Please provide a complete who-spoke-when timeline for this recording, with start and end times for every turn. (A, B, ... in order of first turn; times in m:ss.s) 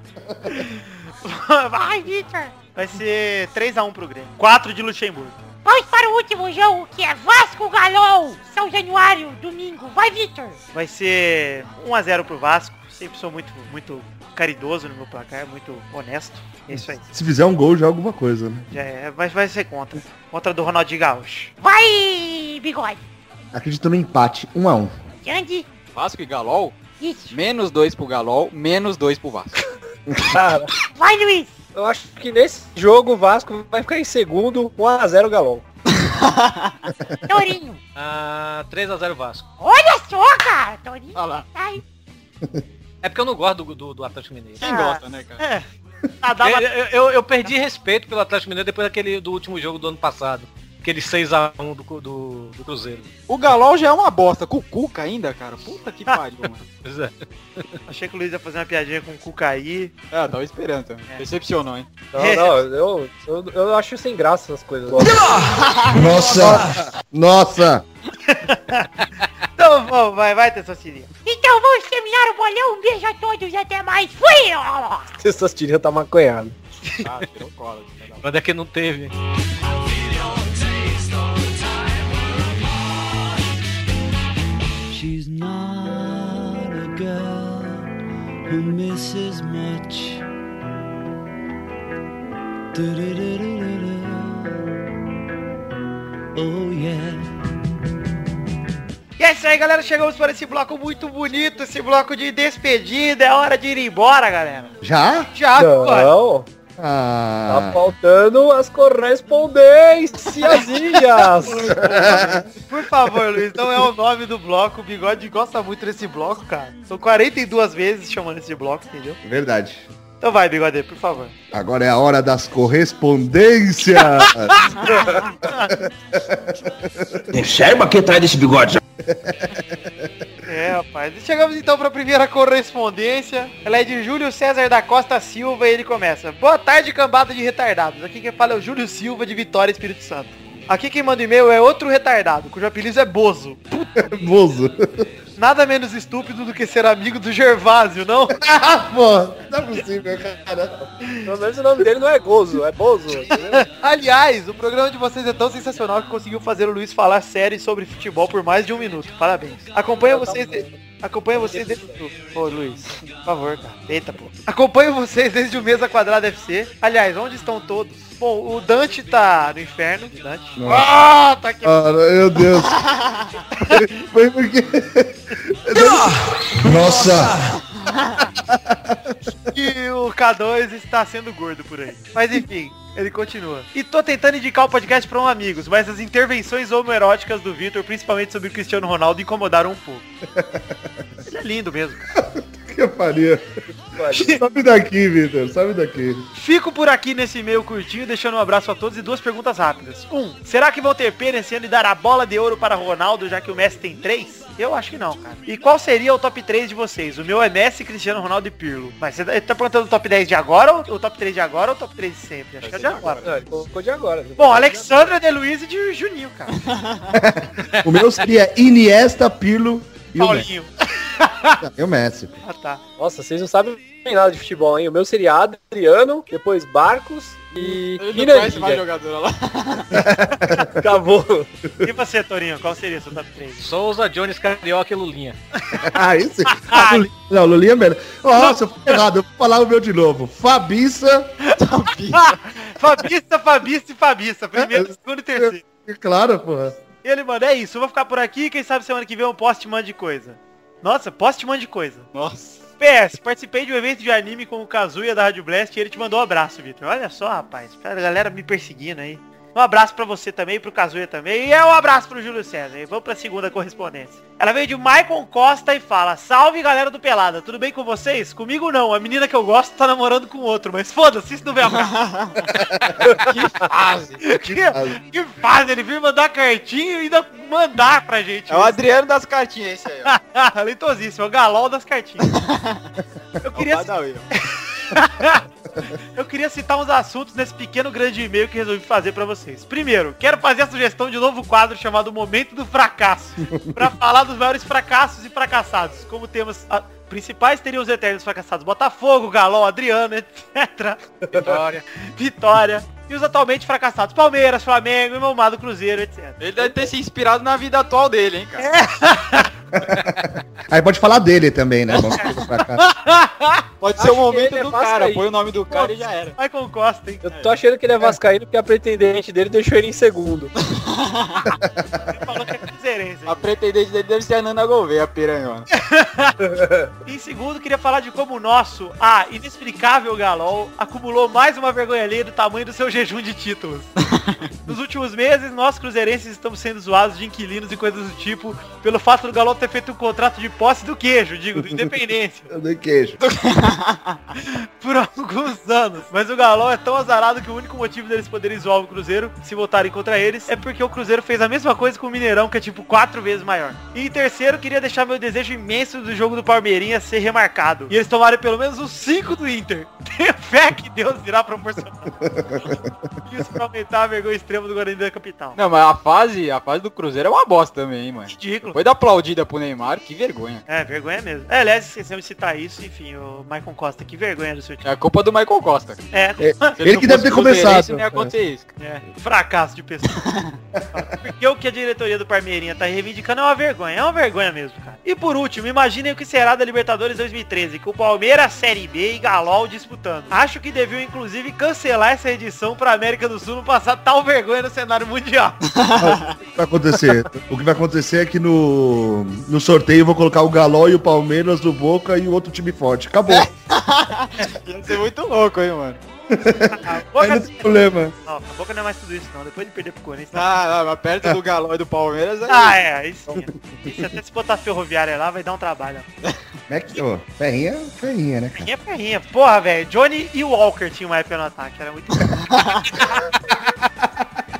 0:00.5-0:05.4 A
0:02.1-0:02.5 B
0:05.6-0:10.6 B
0:10.7-0:17.0 A
0:17.1-0:18.7 C
0:18.7-0:21.5 A
0:21.6-0:23.0 B
0:23.5-0:24.9 C
0:25.2-0:25.7 B
0:25.9-0:26.8 D
0:27.0-0:27.3 B
0:27.3-0:29.6 D
0:30.3-0:30.7 E
0:31.0-0:31.5 B
0:31.7-0:35.6 E
0:36.0-0:36.7 D
0:37.3-0:37.8 B
0:38.0-0:39.4 F
0:39.6-0:41.8 B
0:43.0-0:44.8 F
0:44.6-0:45.4 D
0:44.6-0:45.6 A
0:46.2-0:46.7 A
0:46.4-0:53.1 F
0:53.3-0:56.6 D
0:56.8-0:57.7 F
0:57.9-0:59.9 A
1:00.1-1:01.9 D
1:02.1-1:05.2 E
1:02.2-1:02.6 A
1:05.1-1:06.7 G
1:05.9-1:07.8 C
1:08.3-1:08.9 A
1:09.6-1:11.1 A
1:11.2-1:15.1 B
1:15.2-1:16.5 E
1:17.0-1:18.2 D
1:18.2-1:19.1 F
1:24.9-1:27.9 H
1:28.5-1:30.2 H
1:32.7-1:34.6 H
1:36.3-1:37.5 H
1:39.2-1:44.8 A
1:44.8-1:45.3 C
1:45.3-1:46.1 A
1:45.5-1:46.5 E
1:46.8-1:47.8 C
1:47.5-1:51.7 E
1:51.5-1:59.2 A
1:51.7-1:52.4 C
1:59.2-1:59.9 C
2:00.2-2:01.3 A
2:01.5-2:04.7 C
2:05.4-2:05.8 A
2:06.1-2:07.2 C
2:07.5-2:08.5 G
2:09.0-2:09.9 C
2:10.4-2:23.8 A
2:23.9-2:25.0 C
2:25.4-2:28.4 A
2:28.4-2:30.8 C
2:31.2-2:33.6 E
2:33.6-2:51.8 A
2:40.0-2:40.8 E
2:41.3-2:42.0 E
2:50.6-2:50.9 C
2:51.6-2:52.8 C
2:53.6-2:53.9 A
2:53.6-2:57.5 C
2:55.8-2:57.3 G
2:58.4-2:59.1 C
2:59.5-3:10.0 A
3:10.4-3:10.7 C
3:11.3-3:12.1 A
3:12.2-3:13.4 C
3:13.9-3:14.4 E
3:14.1-3:16.2 C
3:16.3-3:33.2 A
3:32.6-3:33.2 D
3:33.2-3:35.1 E
3:34.4-3:36.5 A
3:36.7-3:37.1 D
3:37.1-3:40.5 C
3:40.2-3:41.6 A
3:41.6-3:42.4 C
3:42.4-3:42.8 A
3:43.0-3:48.8 E
3:47.6-3:49.9 D
3:49.9-3:50.7 C
3:50.7-3:51.5 E
3:51.8-3:53.6 A
3:53.6-3:55.4 F
3:55.8-4:01.3 C
3:56.6-3:57.0 A
4:01.6-4:02.3 D
4:02.2-4:05.6 A
4:04.6-4:06.8 C
4:07.0-4:12.1 A
4:12.1-4:12.6 D
4:12.8-4:31.9 A
4:31.8-4:32.4 D
4:33.2-4:34.2 D
4:34.2-4:38.8 A
4:34.4-4:35.0 C
4:38.5-4:40.1 D
4:40.0-4:42.3 A
4:42.3-4:42.8 D
4:43.4-4:45.4 A
4:43.5-4:44.3 D
4:46.2-5:01.6 A
4:53.4-4:53.9 C
5:01.3-5:01.8 F
5:02.1-5:06.9 A
5:06.4-5:08.7 D
5:08.6-5:09.5 A
5:09.8-5:12.8 C
5:12.8-5:13.6 A
5:13.8-5:16.4 D
5:14.0-5:15.8 E
5:16.4-5:17.3 A
5:17.2-5:20.5 E
5:20.8-5:21.4 D
5:22.1-5:23.5 A
5:23.2-5:25.7 D
5:25.7-5:26.3 A
5:26.4-5:26.9 E
5:27.0-5:33.9 A
5:34.6-5:42.5 A
5:42.5-5:43.2 C
5:43.2-5:44.2 D
5:44.4-6:02.1 A
6:02.2-6:02.9 C
6:03.2-6:05.6 A
6:05.5-6:10.6 D
6:08.3-6:08.8 A
6:10.7-6:14.8 A
6:14.8-6:16.0 D
6:16.1-6:16.8 A
6:16.4-6:18.3 C
6:16.8-6:18.7 D
6:18.8-6:20.2 A
6:21.0-6:35.6 A
6:35.7-6:36.4 D
6:36.0-6:43.5 C
6:43.3-6:46.0 D
6:46.3-6:48.1 C
6:46.7-6:50.5 A
6:50.3-6:52.8 D
6:52.5-6:56.0 A
6:56.7-6:58.7 C
6:58.6-7:03.7 A
7:02.5-7:02.8 D